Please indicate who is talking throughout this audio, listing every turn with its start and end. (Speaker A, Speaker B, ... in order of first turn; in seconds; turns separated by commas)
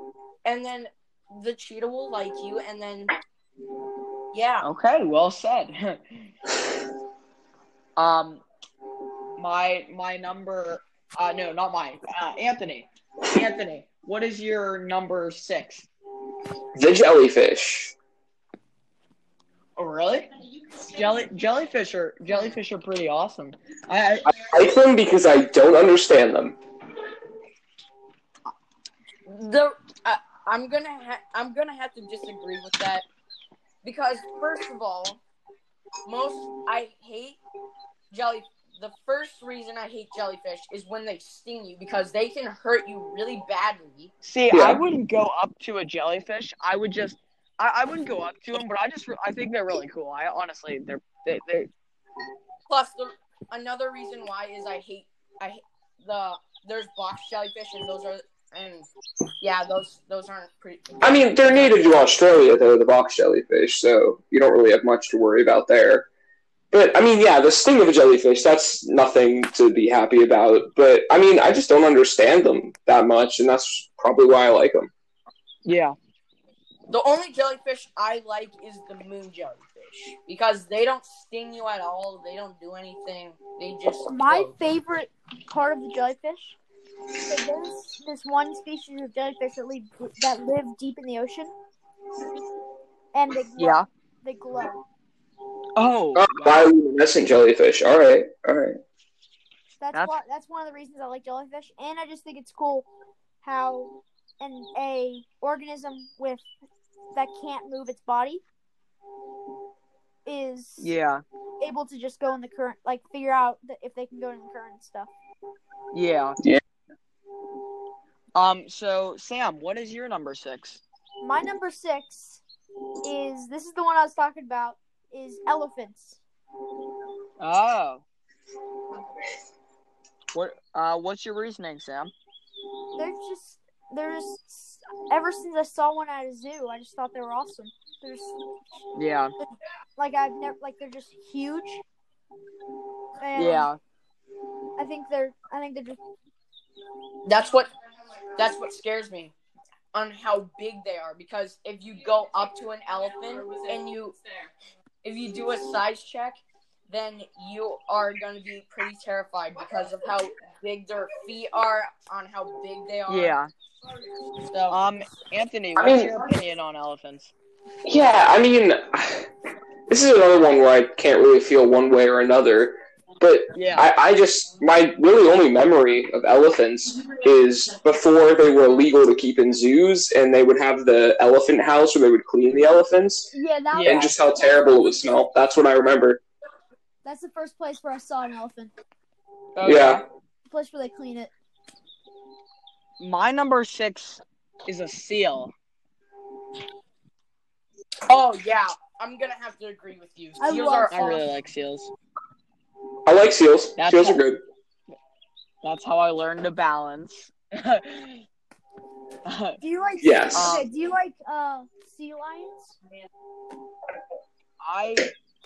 Speaker A: 0.5-3.1, Speaker A: 4.3-4.7, Speaker B: 4.6-6.3, Speaker B: 8.0-8.4, Speaker B: 9.4-15.9, Speaker C: 16.8-17.9, Speaker B: 19.8-20.3, Speaker B: 20.9-24.3, Speaker C: 24.4-26.6, Speaker A: 29.3-33.0, Speaker A: 33.8-35.2, Speaker A: 36.0-37.4, Speaker A: 38.1-44.1, Speaker B: 44.2-51.7, Speaker C: 44.5-44.8, Speaker A: 52.7-58.9, Speaker A: 59.4-61.9, Speaker C: 61.0-66.1, Speaker C: 66.7-74.9, Speaker B: 75.7-76.0, Speaker A: 76.9-84.6, Speaker D: 84.1-86.6, Speaker D: 87.2-91.5, Speaker D: 93.1-94.8, Speaker B: 93.6-93.9, Speaker B: 95.8-96.7, Speaker C: 96.2-98.8, Speaker D: 99.8-102.9, Speaker D: 103.4-106.5, Speaker D: 107.1-108.4, Speaker D: 110.2-110.9, Speaker B: 110.8-111.2, Speaker D: 111.6-115.1, Speaker B: 115.9-116.4, Speaker B: 118.3-120.8, Speaker D: 121.2-122.4, Speaker D: 123.0-126.2, Speaker B: 127.4-128.0, Speaker B: 130.3-132.1, Speaker D: 133.0-138.3, Speaker B: 138.9-139.3, Speaker D: 140.0-141.8, Speaker D: 143.2-143.7, Speaker B: 143.4-143.8, Speaker D: 144.8-146.0, Speaker A: 147.3-147.7, Speaker A: 148.3-149.3, Speaker A: 149.9-154.2, Speaker A: 155.0-163.4, Speaker B: 163.1-163.5, Speaker A: 164.5-164.8, Speaker B: 164.7-167.3, Speaker C: 165.8-166.2, Speaker C: 167.8-169.3, Speaker C: 169.9-183.3, Speaker B: 173.5-173.9, Speaker D: 183.3-184.2, Speaker B: 183.7-184.1, Speaker C: 183.8-186.2, Speaker D: 187.0-188.7, Speaker B: 189.6-190.0, Speaker C: 189.6-190.0, Speaker D: 190.5-191.3, Speaker B: 193.0-195.5, Speaker A: 198.1-201.2, Speaker D: 200.4-201.2, Speaker B: 200.9-201.9, Speaker C: 203.1-204.4, Speaker B: 203.8-204.2, Speaker B: 205.6-208.3, Speaker B: 209.2-209.6, Speaker D: 209.6-212.8, Speaker C: 210.0-210.6, Speaker B: 210.3-210.7, Speaker B: 214.6-215.1